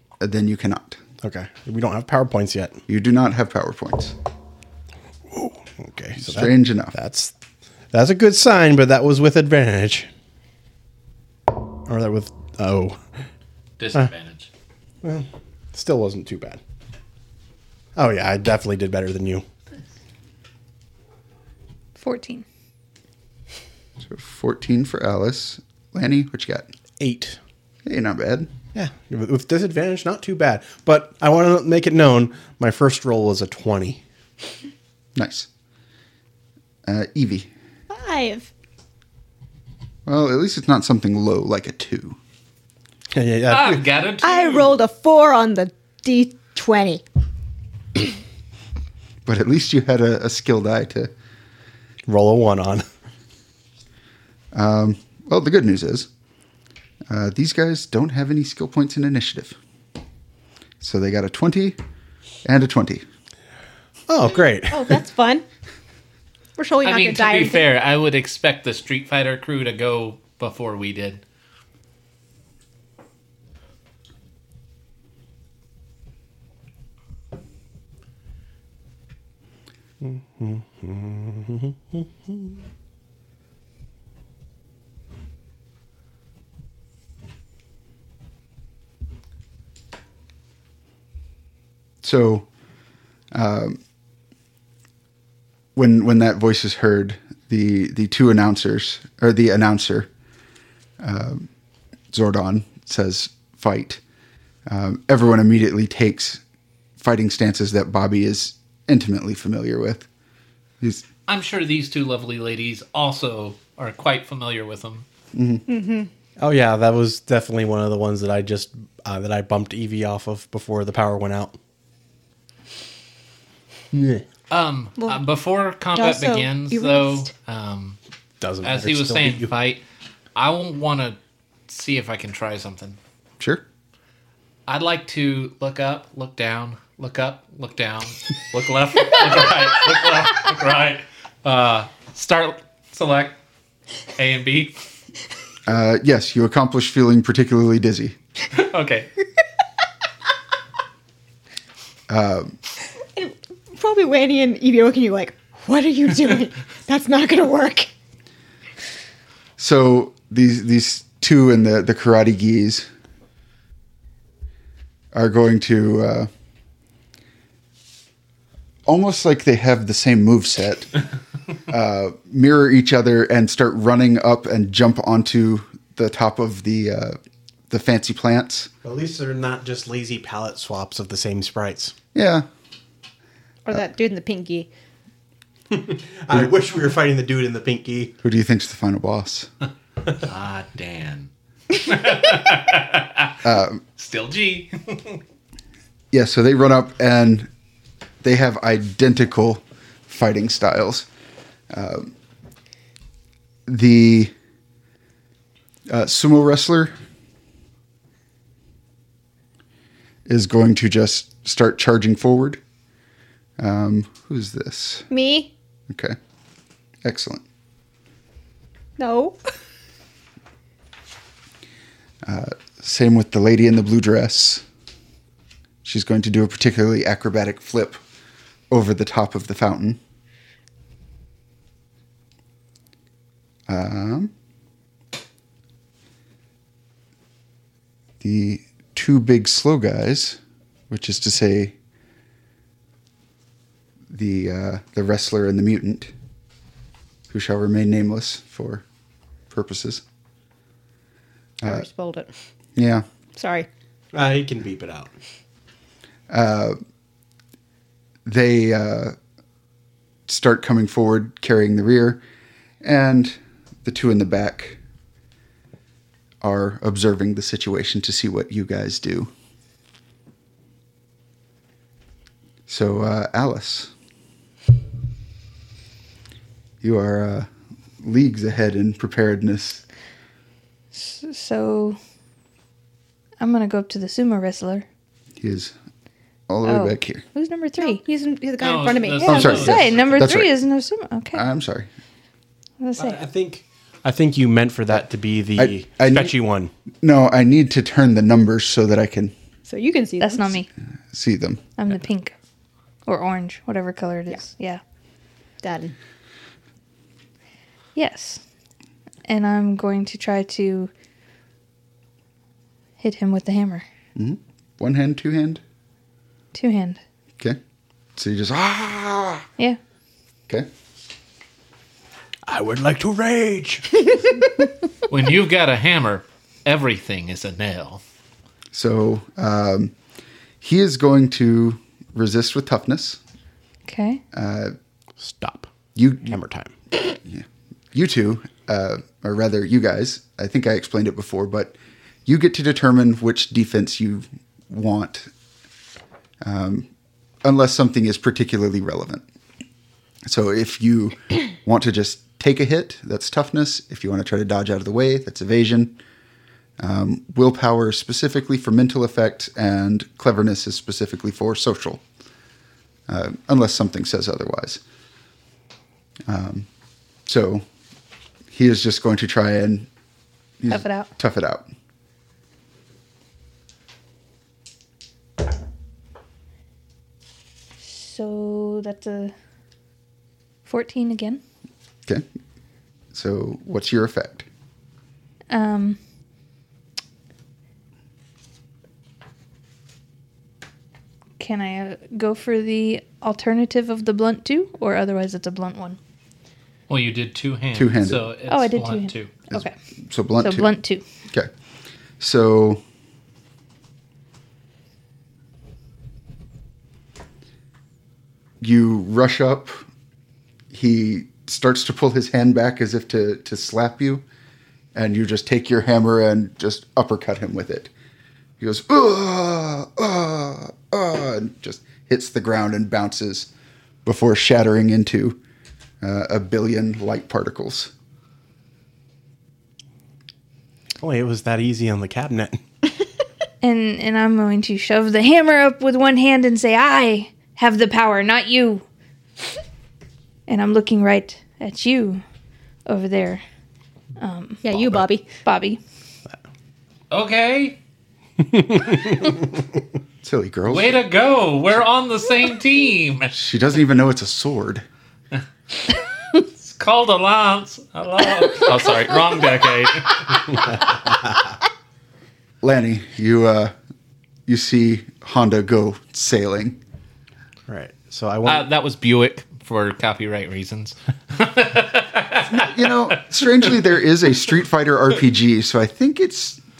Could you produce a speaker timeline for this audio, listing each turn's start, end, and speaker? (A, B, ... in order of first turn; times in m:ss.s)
0:00.2-0:01.0 A
0:01.2-0:02.8 B
0:02.9-0:04.1 A
0:05.3-0:07.3 B
0:06.2-0:06.9 A
0:07.9-0:10.1 B
0:11.9-0:13.0 B
0:13.8-0:14.5 C
0:15.0-0:16.6 B
0:18.0-0:19.4 B
0:22.0-0:22.4 D
0:24.0-0:26.7 A
0:27.0-0:27.4 B
0:27.8-0:28.5 A
0:28.7-0:34.0 B
0:35.2-0:35.5 A
0:36.8-0:37.5 A
0:37.9-0:38.5 E
0:40.0-0:42.2 A
0:43.1-0:43.8 B
0:43.5-0:44.7 C
0:44.2-0:47.0 E
0:49.2-0:51.1 A
0:52.1-0:52.8 B
0:54.5-0:56.1 A
0:57.1-0:59.6 A
1:00.8-1:01.8 A
1:02.4-1:03.0 A
1:04.1-1:05.0 B
1:04.7-1:05.4 E
1:06.6-1:07.6 E
1:06.8-1:11.2 C
1:20.0-1:22.6 B
1:32.0-1:32.5 A
1:33.3-1:33.8 A
1:35.7-1:40.1 A
1:41.0-1:41.5 A
1:42.1-1:44.0 A
1:44.7-1:46.4 A
1:47.0-1:50.1 A
1:51.3-1:55.0 C
1:55.3-1:55.6 A
1:55.7-1:56.1 E
1:56.4-2:01.6 B
2:03.9-2:04.2 B
2:04.5-2:08.0 C
2:05.9-2:07.3 E
2:08.4-2:09.5 B
2:08.6-2:09.8 C
2:10.3-2:13.0 C
2:14.7-2:23.4 C
2:24.2-2:24.8 C
2:25.7-2:28.2 A
2:28.5-2:29.1 C
2:32.1-2:32.6 A
2:33.1-2:37.9 E
2:39.6-2:42.9 A
2:45.1-2:46.3 A
2:48.8-2:50.9 A
2:51.7-2:57.2 A
2:57.7-2:58.7 A
2:58.8-3:01.9 B
3:02.1-3:02.4 A
3:03.6-3:04.7 E
3:05.7-3:08.1 B
3:08.2-3:09.5 A
3:10.2-3:13.4 C
3:13.4-3:13.8 A
3:14.0-3:15.2 C
3:16.1-3:17.5 A
3:18.2-3:21.1 A
3:21.7-3:22.1 A
3:23.7-3:24.3 A
3:25.9-3:26.9 A
3:30.2-3:32.6 A
3:33.6-3:35.1 A
3:35.1-3:35.5 E
3:35.9-3:36.2 A
3:37.0-3:37.4 A
3:39.0-3:39.4 E
3:42.2-3:44.6 A
3:45.8-3:48.0 A
3:48.7-3:50.0 A
3:53.7-3:54.3 A
3:58.2-4:00.4 A
4:00.9-4:01.7 A
4:04.1-4:06.1 A
4:07.3-4:08.8 A
4:09.5-4:10.0 A
4:11.6-4:12.3 E
4:12.8-4:13.0 A
4:13.4-4:13.7 E
4:14.1-4:15.1 B
4:16.3-4:16.8 A
4:18.2-4:19.2 A
4:20.3-4:22.2 A
4:22.8-4:24.8 A
4:26.4-4:29.3 A
4:32.7-4:33.9 A
4:36.8-4:37.5 A
4:38.0-4:39.8 A
4:40.9-4:42.0 D
4:43.4-4:44.8 D
4:45.4-4:45.7 A
4:46.5-4:47.2 A
4:46.6-4:48.0 D
4:47.8-4:49.7 E
4:48.6-4:50.3 C
4:49.2-4:51.4 D
4:49.3-4:50.5 A
4:51.3-4:51.9 A
4:52.8-4:53.2 D
4:52.9-4:56.7 B
4:55.6-4:56.3 A
4:57.0-4:59.3 A
4:59.6-5:00.6 E
5:00.2-5:00.7 D
5:01.1-5:01.6 A
5:01.8-5:02.3 D
5:03.0-5:04.8 D
5:05.6-5:05.9 E
5:07.9-5:08.4 D
5:09.2-5:10.9 D
5:13.0-5:13.8 D
5:14.2-5:15.6 A
5:16.5-5:17.0 D
5:18.2-5:19.5 A
5:22.5-5:24.1 B
5:25.1-5:28.0 C
5:28.7-5:29.9 A
5:30.6-5:33.2 A
5:33.8-5:34.2 D
5:34.3-5:34.7 A
5:35.2-5:35.7 B
5:35.9-5:36.4 A
5:36.3-5:36.7 B
5:37.2-5:45.3 A
5:46.4-5:46.9 A
5:47.4-5:49.2 A
5:50.2-5:56.0 A
5:56.8-6:02.0 A
6:03.1-6:04.8 A
6:06.3-6:06.7 A
6:07.2-6:07.6 A
6:08.5-6:09.9 A
6:10.6-6:11.7 A
6:10.7-6:11.1 D
6:17.8-6:19.3 D
6:20.6-6:21.4 D
6:23.1-6:24.4 A
6:25.5-6:26.0 D
6:31.4-6:36.0 D
6:36.9-6:39.3 C
6:37.7-6:38.3 A
6:38.5-6:39.7 D
6:39.5-6:40.7 A
6:40.4-6:41.0 D
6:42.2-6:42.8 A
6:48.6-6:49.8 A
6:50.7-6:54.2 A
6:54.9-6:57.9 A
6:58.6-7:03.5 A
7:04.0-7:05.4 A
7:06.0-7:07.9 A
7:11.0-7:12.6 B
7:13.6-7:18.8 D
7:20.5-7:22.2 D
7:22.8-7:23.4 D
7:24.2-7:24.8 D
7:24.6-7:25.3 E
7:25.4-7:25.8 D
7:27.1-7:27.8 C
7:28.4-7:29.4 B
7:30.2-7:31.0 A
7:30.7-7:33.3 C
7:33.3-7:34.8 A
7:36.4-7:40.8 C
7:42.6-7:43.7 A
7:44.5-7:46.8 A
7:47.7-7:48.6 B
7:48.4-7:53.6 C
7:52.4-7:56.6 A